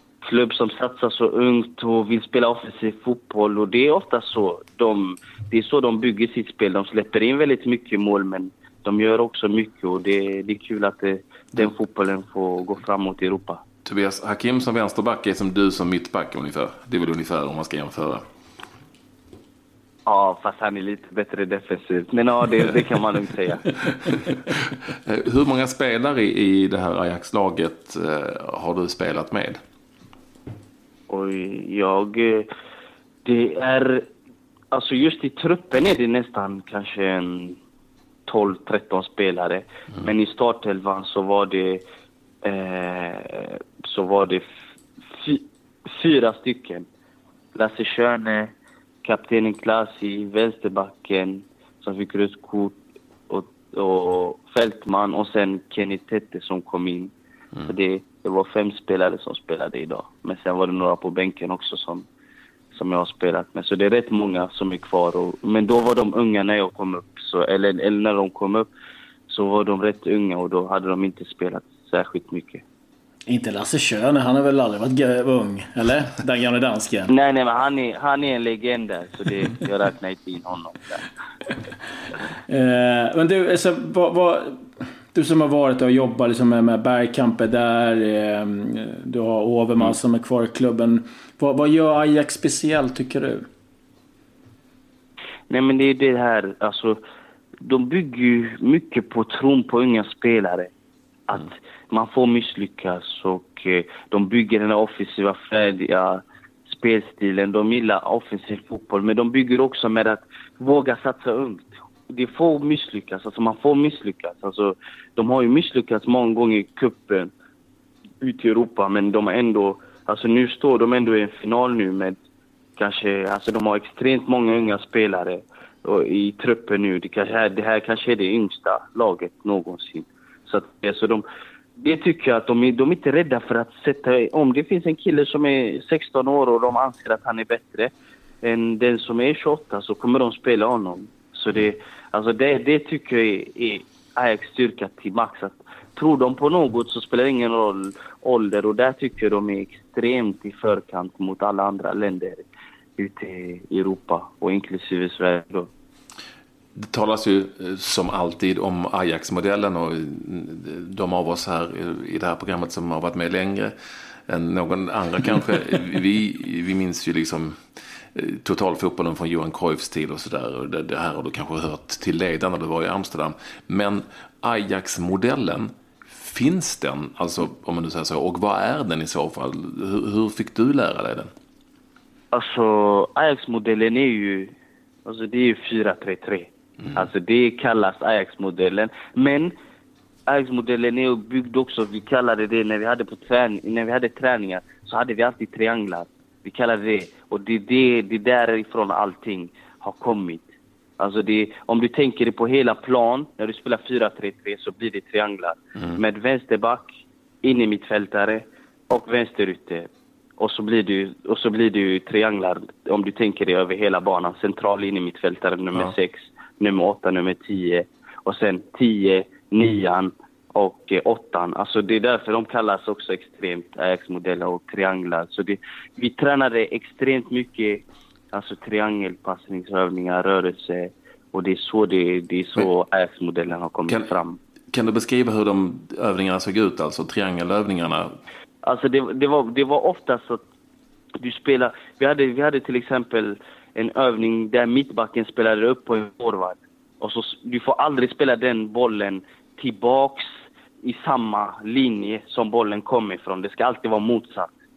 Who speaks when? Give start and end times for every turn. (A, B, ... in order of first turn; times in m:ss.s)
0:00.2-0:13.6 A
0:13.8-0:18.2 B
0:20.1-0:23.7 A
0:24.1-0:29.6 B
0:31.1-0:32.5 A
0:33.2-0:34.0 A
0:34.7-0:37.6 A
0:38.3-0:41.8 A
0:42.4-0:44.4 A
0:45.1-0:46.8 A
0:47.6-0:48.5 A
0:49.0-0:52.8 A
0:53.3-0:57.1 A
0:57.7-1:02.1 A
1:02.7-1:08.7 A
1:09.3-1:12.6 A
1:13.3-1:17.1 C
1:17.1-1:21.1 A
1:22.5-1:33.4 C
1:35.5-1:37.0 A
1:37.6-1:40.7 A
1:41.3-1:57.3 A
1:58.2-2:02.2 A
2:02.8-2:11.2 A
2:11.8-2:32.4 A
2:33.0-2:35.7 A
2:36.8-2:43.7 B
2:44.3-2:47.6 B
2:48.2-3:01.3 B
3:02.3-3:04.5 A
3:05.1-3:09.5 A
3:10.3-3:20.4 A
3:21.0-3:26.9 A
3:27.4-3:29.9 A
3:30.4-3:54.4 A
3:54.7-3:58.1 B
3:58.6-4:00.4 A
4:01.2-4:10.3 A
4:10.8-4:14.5 A